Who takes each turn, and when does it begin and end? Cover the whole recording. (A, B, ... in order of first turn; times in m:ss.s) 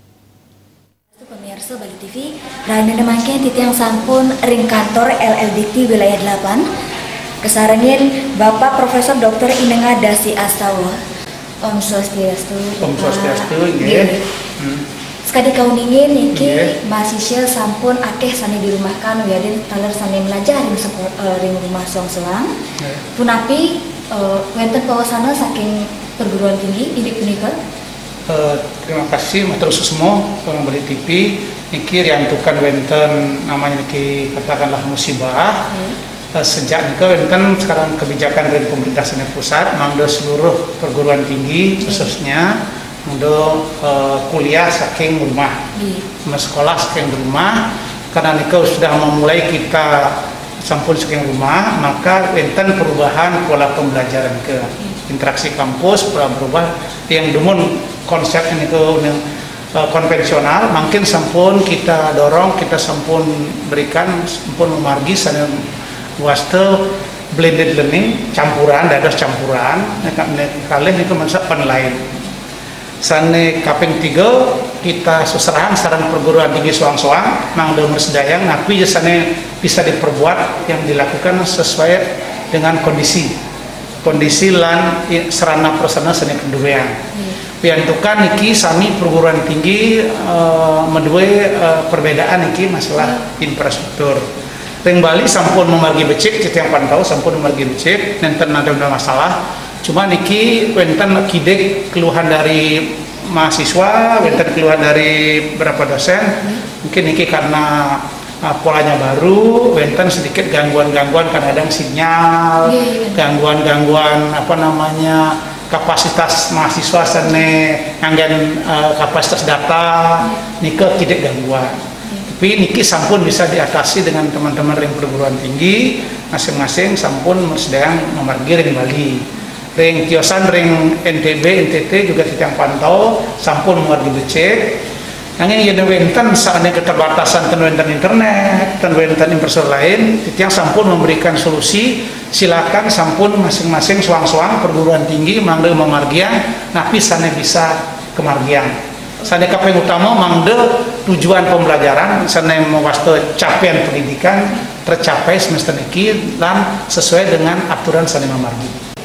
0:01.2-0:06.7 A
0:07.4-0:11.0 A
0:11.6-0:14.3 A
0:12.8-0:14.8 B
0:15.2-0:22.5 A
0:16.3-0:16.7 B
0:23.2-0:27.6 A
0:28.3-0:35.7 B
0:36.3-0:45.6 B
0:41.8-0:42.1 A
0:45.8-0:46.0 A
0:46.2-0:59.2 B
0:59.7-1:05.7 B
1:06.2-1:12.1 B
1:13.0-1:23.3 B
1:24.0-1:27.0 B
1:27.6-1:34.3 B
1:34.8-2:14.8 B
1:52.6-1:53.2 A
2:15.4-2:38.8 B